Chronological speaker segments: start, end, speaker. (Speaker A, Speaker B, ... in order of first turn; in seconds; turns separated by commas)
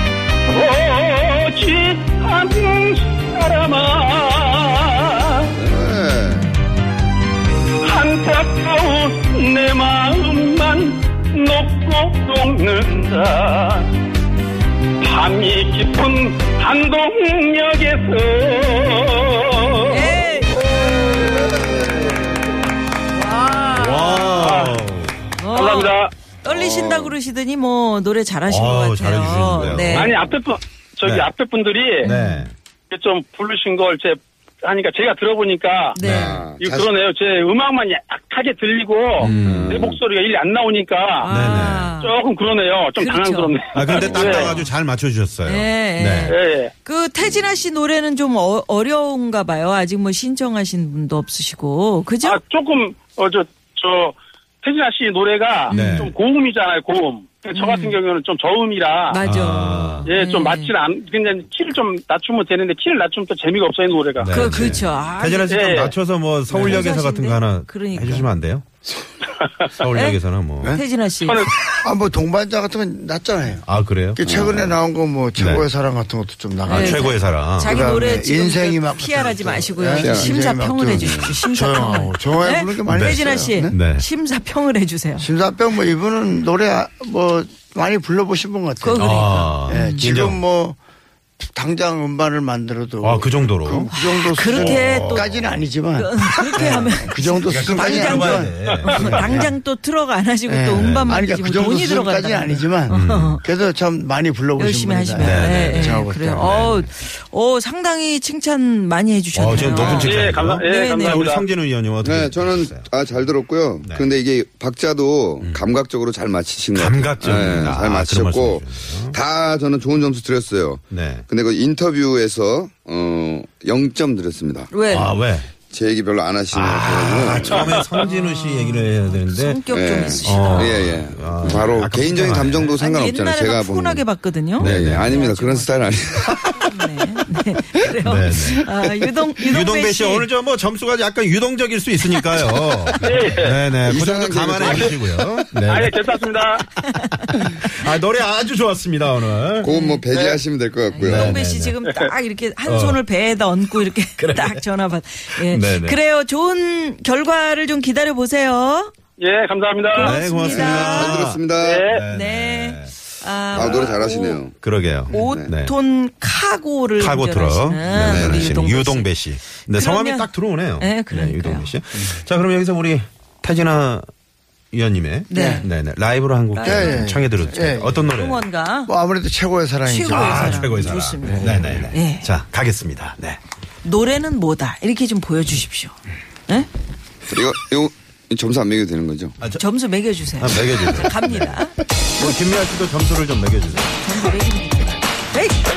Speaker A: 0.5-5.5, Speaker B: 5.6-6.5, Speaker A: 7.8-13.9, Speaker A: 15.0-20.3, Speaker C: 19.9-20.6, Speaker B: 20.9-22.1, Speaker C: 23.1-24.6, Speaker D: 23.7-25.2, Speaker A: 24.4-24.8, Speaker C: 25.4-30.1, Speaker A: 25.5-26.1, Speaker B: 26.5-27.1, Speaker D: 28.5-30.2, Speaker A: 29.8-32.1, Speaker D: 32.0-32.5, Speaker C: 32.0-32.5, Speaker A: 32.9-36.0, Speaker C: 35.9-36.4, Speaker D: 36.0-36.5, Speaker B: 36.1-36.9, Speaker A: 36.6-41.3, Speaker D: 39.2-39.8, Speaker C: 39.2-39.5, Speaker B: 39.4-40.0, Speaker C: 41.2-42.1, Speaker D: 41.2-41.9, Speaker A: 42.0-44.6, Speaker C: 43.0-44.7, Speaker D: 43.7-46.3, Speaker C: 45.4-52.4, Speaker A: 46.3-46.7, Speaker A: 52.2-59.2, Speaker C: 55.7-56.1, Speaker D: 55.7-56.1, Speaker C: 57.5-58.0, Speaker C: 59.1-60.7, Speaker D: 59.2-60.1, Speaker A: 60.0-64.7, Speaker D: 64.2-68.7, Speaker C: 64.3-65.8, Speaker A: 65.5-65.9, Speaker C: 66.5-68.3, Speaker D: 69.8-70.8, Speaker C: 69.9-70.2, Speaker C: 70.7-71.5, Speaker A: 71.2-71.6, Speaker E: 71.8-83.7, Speaker D: 73.7-74.5, Speaker B: 74.2-74.7, Speaker D: 75.4-75.7, Speaker C: 76.7-85.3, Speaker D: 76.7-77.7, Speaker B: 80.0-80.4, Speaker B: 80.9-81.4, Speaker D: 82.9-84.0, Speaker E: 85.2-90.8, Speaker C: 88.8-90.0, Speaker D: 89.0-90.4, Speaker E: 91.4-99.5, Speaker D: 93.0-93.9, Speaker C: 94.3-95.3, Speaker D: 94.4-95.6, Speaker C: 96.0-103.4, Speaker D: 96.3-96.9, Speaker D: 97.5-99.4, Speaker A: 98.7-99.2, Speaker E: 100.5-106.7, Speaker D: 100.8-101.2, Speaker D: 102.9-103.4, Speaker C: 104.6-111.3, Speaker D: 105.2-106.9, Speaker D: 109.3-112.9, Speaker A: 109.5-111.5, Speaker B: 112.0-124.7, Speaker D: 116.7-119.2, Speaker D: 120.9-121.2, Speaker C: 124.7-125.1, Speaker D: 124.8-125.5, Speaker B: 125.7-127.7, Speaker D: 126.5-129.6, Speaker A: 127.6-127.9, Speaker C: 128.0-130.9, Speaker B: 129.7-134.0, Speaker D: 130.2-132.7, Speaker C: 132.8-135.7, Speaker D: 134.6-135.2, Speaker B: 134.6-136.5, Speaker C: 136.5-140.3, Speaker D: 138.0-138.7, Speaker D: 139.4-146.0, Speaker A: 143.0-143.7, Speaker B: 143.8-145.1, Speaker A: 144.6-144.9, Speaker A: 145.6-146.6, Speaker C: 146.9-147.7, Speaker D: 147.3-149.7, Speaker B: 149.6-151.4, Speaker C: 149.7-150.0, Speaker C: 150.9-158.9, Speaker D: 151.0-151.8, Speaker D: 152.7-153.0, Speaker D: 154.2-154.6, Speaker D: 155.4-156.0, Speaker A: 159.2-160.2, Speaker C: 159.9-161.2, Speaker D: 160.0-162.9, Speaker B: 160.5-161.9, Speaker A: 161.5-162.0, Speaker C: 162.1-164.4, Speaker B: 163.5-165.5, Speaker D: 163.6-163.8, Speaker D: 164.6-165.7, Speaker C: 165.1-169.1, Speaker D: 167.0-174.1, Speaker B: 167.9-168.6, Speaker C: 169.7-170.3, Speaker C: 170.8-171.7, Speaker D: 174.7-178.4, Speaker C: 175.3-175.7, Speaker E: 175.3-175.6, Speaker C: 176.5-177.1, Speaker E: 176.6-178.1, Speaker C: 178.1-178.9, Speaker E: 178.8-181.9, Speaker C: 179.9-182.3, Speaker D: 180.1-183.4, Speaker C: 183.8-185.9, Speaker B: 187.3-189.3, Speaker C: 189.5-191.7, Speaker D: 190.4-191.6, Speaker D: 192.2-194.3, Speaker C: 194.0-195.6